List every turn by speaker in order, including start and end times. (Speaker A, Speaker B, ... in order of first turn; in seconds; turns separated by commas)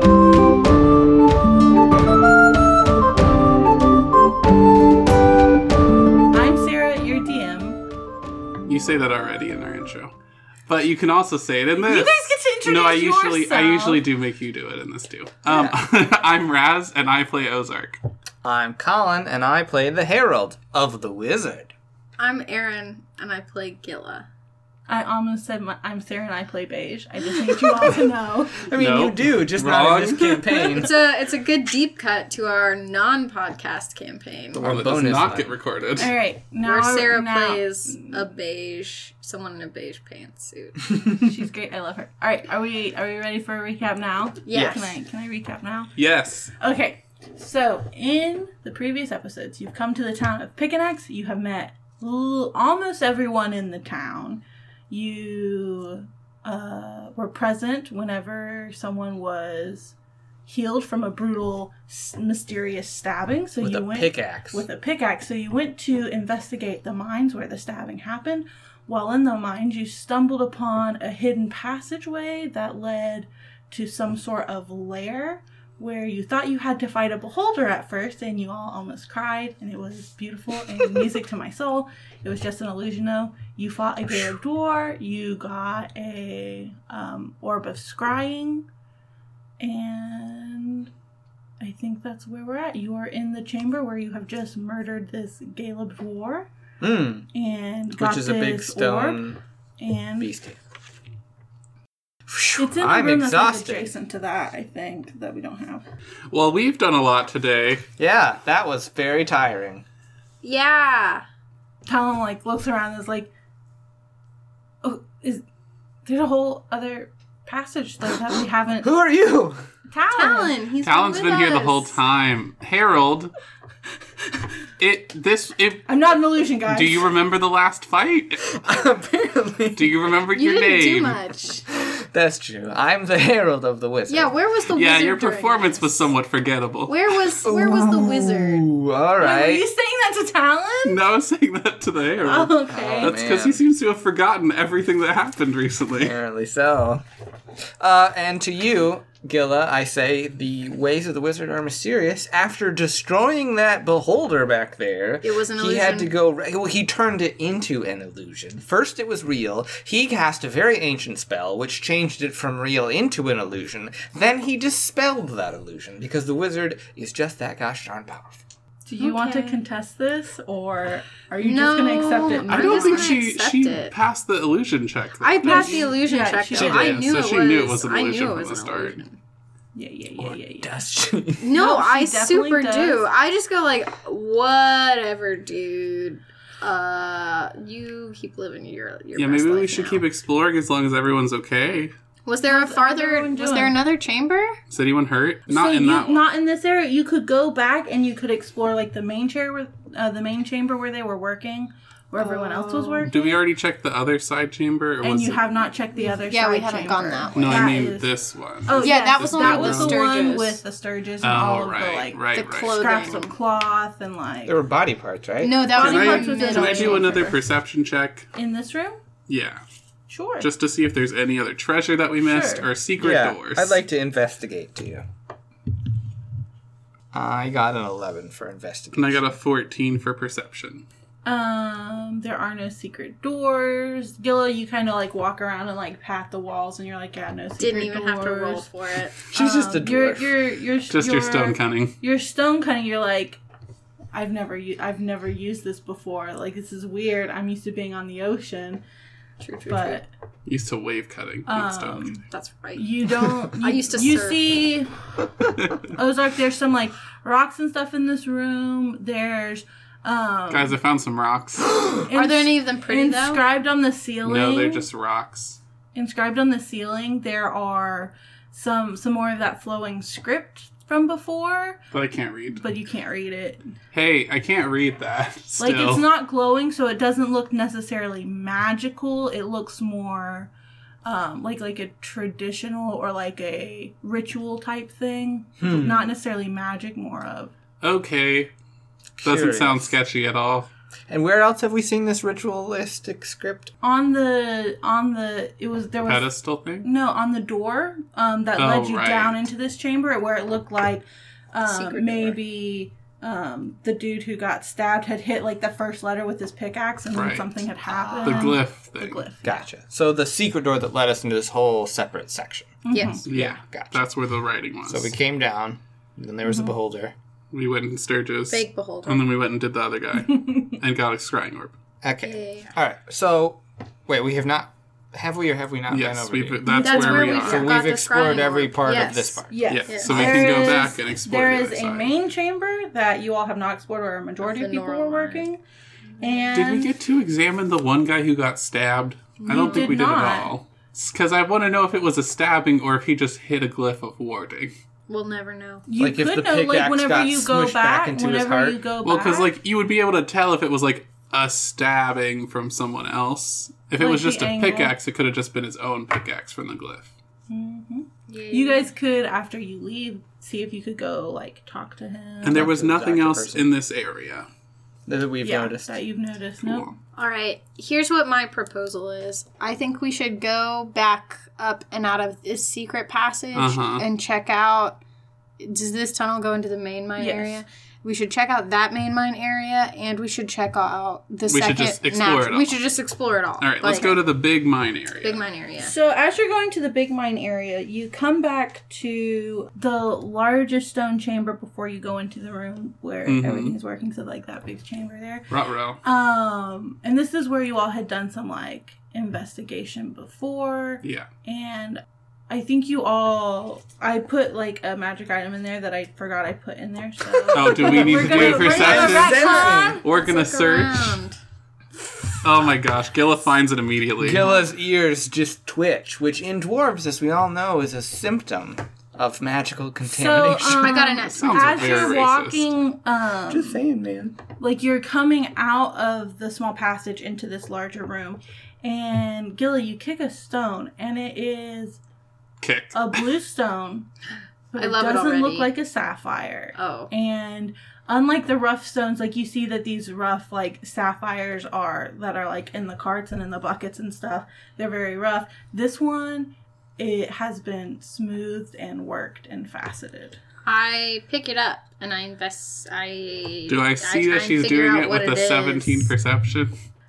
Speaker A: 6.3-7.8, Speaker B: 8.7-10.1, Speaker B: 10.7-18.0, Speaker A: 11.8-14.0, Speaker C: 15.5-15.8, Speaker C: 18.4-21.7, Speaker D: 22.2-24.3, Speaker A: 24.9-28.6, Speaker D: 27.6-27.9, Speaker C: 28.6-30.9, Speaker B: 28.8-30.7, Speaker D: 30.7-34.7, Speaker C: 34.5-35.5, Speaker B: 34.6-36.1, Speaker A: 36.0-38.2, Speaker D: 36.6-40.8, Speaker A: 41.2-45.9, Speaker D: 44.5-45.0, Speaker C: 44.5-44.8, Speaker B: 46.0-46.5, Speaker A: 46.6-60.0, Speaker A: 60.5-88.7, Speaker C: 63.6-64.7, Speaker A: 89.6-90.9, Speaker A: 91.6-96.5, Speaker C: 96.8-97.3, Speaker A: 97.3-99.2, Speaker C: 98.0-99.4, Speaker A: 99.8-100.3, Speaker C: 100.2-100.6, Speaker C: 102.3-103.9, Speaker A: 102.6-105.9, Speaker B: 106.3-107.9, Speaker C: 108.0-109.8, Speaker D: 110.4-111.2, Speaker A: 111.9-113.3, Speaker A: 114.8-115.4, Speaker A: 116.0-118.9, Speaker C: 118.8-119.7, Speaker A: 119.9-120.5, Speaker D: 120.1-122.0, Speaker B: 120.8-123.3, Speaker B: 124.8-125.9, Speaker A: 125.9-127.1, Speaker B: 126.7-128.4, Speaker C: 128.4-130.0, Speaker B: 129.8-131.2, Speaker D: 130.3-131.7, Speaker C: 131.7-134.3, Speaker D: 134.1-136.1, Speaker B: 134.7-137.0, Speaker D: 136.9-138.7, Speaker C: 137.4-139.7, Speaker A: 139.2-141.0, Speaker B: 140.8-146.2, Speaker A: 142.2-143.2, Speaker C: 142.7-143.6, Speaker C: 146.0-147.0, Speaker C: 147.8-168.4, Speaker D: 155.2-156.1, Speaker A: 168.9-173.2, Speaker D: 169.0-169.6, Speaker D: 171.4-173.9, Speaker B: 172.5-175.9, Speaker D: 175.2-179.2, Speaker A: 175.4-177.0, Speaker B: 176.5-179.0, Speaker C: 176.6-176.9, Speaker A: 179.8-180.8, Speaker C: 180.2-181.5, Speaker D: 181.4-190.0, Speaker A: 181.5-183.0, Speaker B: 189.2-191.9, Speaker D: 192.2-194.6, Speaker A: 192.5-193.8, Speaker B: 194.7-196.2, Speaker A: 195.5-203.4, Speaker D: 202.2-203.2, Speaker B: 203.1-205.4, Speaker A: 205.0-208.1, Speaker D: 205.9-207.8, Speaker B: 207.4-210.0, Speaker A: 208.7-214.6, Speaker D: 208.8-210.6, Speaker B: 211.2-212.8, Speaker D: 212.3-213.3, Speaker C: 214.5-215.7, Speaker D: 215.4-217.3, Speaker A: 215.8-217.4, Speaker B: 215.8-218.3, Speaker A: 218.3-219.0, Speaker B: 219.3-219.6, Speaker A: 220.1-220.5, Speaker B: 220.4-223.8, Speaker A: 222.2-222.7, Speaker C: 223.0-225.1, Speaker C: 227.1-229.2, Speaker B: 228.9-230.8, Speaker A: 231.2-238.7, Speaker D: 237.6-239.2, Speaker C: 239.3-240.3, Speaker A: 239.3-243.4, Speaker B: 240.9-241.9, Speaker A: 244.1-248.8, Speaker D: 249.4-250.0, Speaker A: 249.7-250.1, Speaker B: 250.5-252.2, Speaker A: 251.5-252.2, Speaker D: 252.3-254.4, Speaker A: 252.8-254.9, Speaker A: 255.8-260.8, Speaker B: 260.5-261.8, Speaker A: 262.1-264.9, Speaker D: 262.1-263.4, Speaker B: 264.2-265.6, Speaker A: 265.9-271.8, Speaker B: 271.9-272.6, Speaker A: 272.5-273.7, Speaker B: 273.9-276.1, Speaker A: 275.6-280.5, Speaker A: 281.1-287.5, Speaker C: 285.6-286.1, Speaker B: 287.8-288.5, Speaker C: 289.2-289.9, Speaker B: 289.2-290.7, Speaker C: 291.1-293.7, Speaker A: 293.8-309.7, Speaker B: 296.1-296.9, Speaker B: 298.6-299.5, Speaker D: 301.6-302.4, Speaker B: 307.1-307.6, Speaker C: 307.9-308.5, Speaker B: 308.2-309.3, Speaker C: 309.4-312.7, Speaker A: 312.9-313.2, Speaker D: 312.9-313.2, Speaker C: 313.2-314.1, Speaker B: 313.2-315.1, Speaker C: 314.9-317.1, Speaker B: 317.5-321.7, Speaker D: 318.5-319.3, Speaker A: 320.2-320.8, Speaker C: 322.0-326.6, Speaker D: 322.2-322.7, Speaker B: 325.9-327.7, Speaker A: 326.7-327.7, Speaker D: 326.7-330.7, Speaker C: 327.4-330.5, Speaker A: 329.5-335.6, Speaker B: 329.7-332.1, Speaker D: 334.4-335.4, Speaker D: 336.2-336.6, Speaker A: 336.2-336.9, Speaker B: 336.5-344.7, Speaker D: 339.4-340.0, Speaker A: 339.5-340.5, Speaker D: 345.1-345.9, Speaker A: 345.9-349.5, Speaker C: 346.0-348.8, Speaker B: 349.0-357.1, Speaker A: 354.0-354.9, Speaker A: 357.5-362.7, Speaker D: 358.3-358.9, Speaker C: 362.4-363.7, Speaker B: 362.4-364.5, Speaker C: 365.1-366.0, Speaker A: 365.4-367.0, Speaker B: 366.6-366.9, Speaker D: 367.1-375.0, Speaker B: 373.5-374.1, Speaker D: 375.6-384.2, Speaker A: 377.2-377.6, Speaker B: 381.5-382.7, Speaker B: 383.6-385.4, Speaker A: 383.8-384.2, Speaker D: 385.2-385.9, Speaker A: 385.8-395.5, Speaker B: 393.3-393.8, Speaker B: 395.5-396.0, Speaker A: 396.0-410.0, Speaker B: 401.0-401.3, Speaker B: 407.5-411.2, Speaker C: 407.6-410.0, Speaker D: 408.6-411.4, Speaker B: 412.4-414.5, Speaker C: 414.2-420.9, Speaker A: 420.1-423.8, Speaker D: 420.6-422.2, Speaker B: 421.3-422.7, Speaker C: 423.5-424.4, Speaker A: 424.6-432.0, Speaker B: 432.6-433.3, Speaker A: 432.9-434.1, Speaker A: 434.7-450.4, Speaker D: 434.8-435.7, Speaker D: 436.8-437.1, Speaker D: 450.7-456.1, Speaker B: 453.7-456.7